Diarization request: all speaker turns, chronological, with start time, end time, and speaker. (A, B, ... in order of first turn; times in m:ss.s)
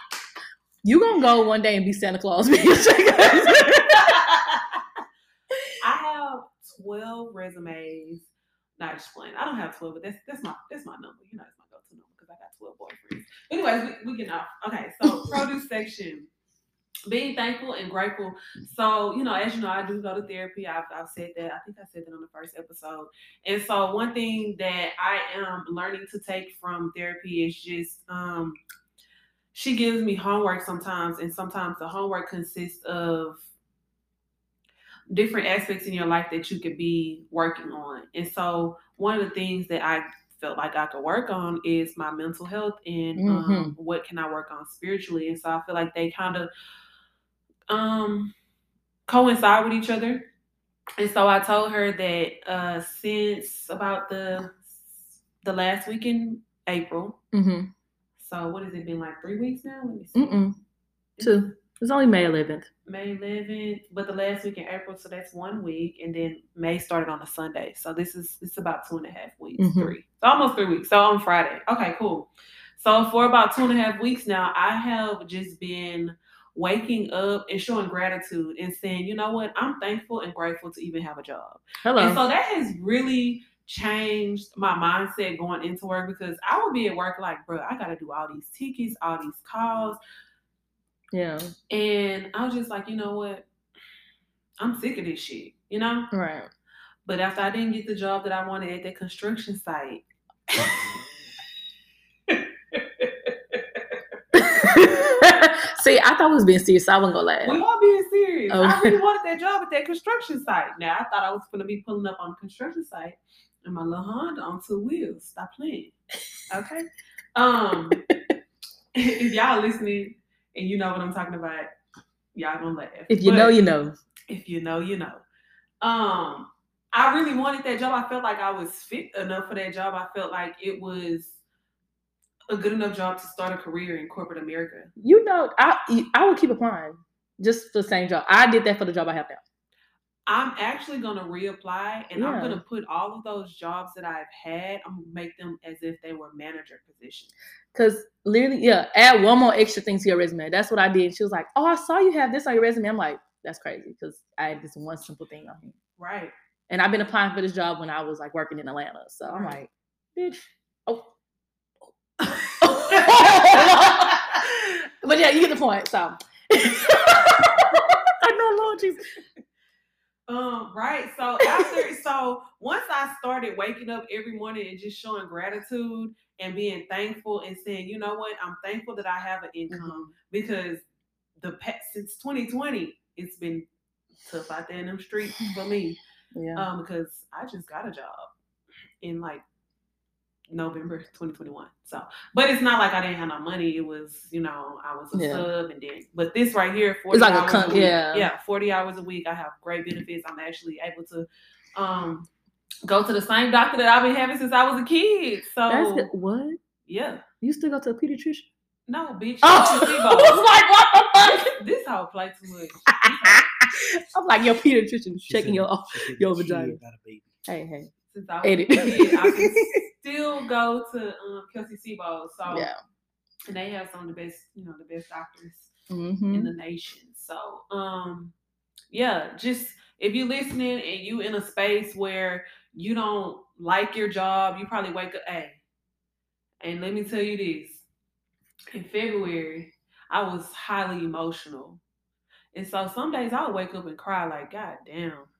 0:00.8-0:04.2 A
0:03.9-0:04.8 B
0:05.8-0:16.3 B
0:15.0-0:15.4 A
0:17.1-0:28.6 B
0:29.5-0:33.5 B
0:35.1-0:46.5 B
0:43.2-0:43.7 A
0:47.7-0:48.3 B
0:49.1-0:50.3 B
0:51.0-0:57.2 B
0:57.3-0:57.7 A
0:58.2-1:00.3 B
1:00.1-1:00.6 A
1:01.2-1:01.5 B
1:01.2-1:02.7 A
1:02.9-1:30.0 B
1:09.6-1:09.9 A
1:21.8-1:22.2 A
1:31.1-1:31.5 A
1:31.7-1:33.5 B
1:34.6-1:36.1 B
1:36.1-1:36.5 A
1:37.0-1:41.0 B
1:42.3-1:44.0 B
1:44.3-1:47.6 A
1:47.4-1:55.9 B
1:48.5-1:49.0 A
1:56.5-1:58.0 B
1:58.9-2:01.7 B
2:02.3-2:03.5 B
2:03.1-2:04.0 A
2:04.3-2:05.2 B
2:05.8-2:11.4 B
2:12.5-2:14.9 B
2:15.0-2:19.4 A
2:20.3-2:27.3 B
2:22.2-2:22.6 A
2:27.7-2:35.8 A
2:36.0-2:36.3 B
2:36.7-2:41.1 A
2:39.3-2:39.6 B
2:42.2-2:44.4 B
2:42.6-2:49.0 A
2:50.3-3:00.8 B
2:51.5-2:51.8 A
2:59.7-3:00.1 A
3:01.4-3:03.7 B
3:04.2-3:06.0 B
3:06.3-3:06.6 A
3:06.5-3:08.3 B
3:09.0-3:09.4 B
3:10.5-3:22.3 B
3:15.1-3:15.5 A
3:17.1-3:18.3 A
3:22.8-3:26.1 B
3:25.7-3:26.6 A
3:26.8-3:27.2 B
3:27.4-3:28.5 A
3:28.9-3:30.5 B
3:29.4-3:31.6 A
3:31.2-3:33.5 B
3:33.0-3:36.8 A
3:35.2-3:37.3 C
3:37.4-3:37.9 A
3:38.1-3:42.7 B
3:38.4-3:39.8 A
3:42.5-3:42.8 A
3:43.5-3:45.7 B
3:45.9-3:46.5 A
3:46.3-3:48.3 B
3:48.9-3:55.6 B
3:56.6-3:57.8 B
3:58.7-4:01.8 B
4:02.5-4:05.3 B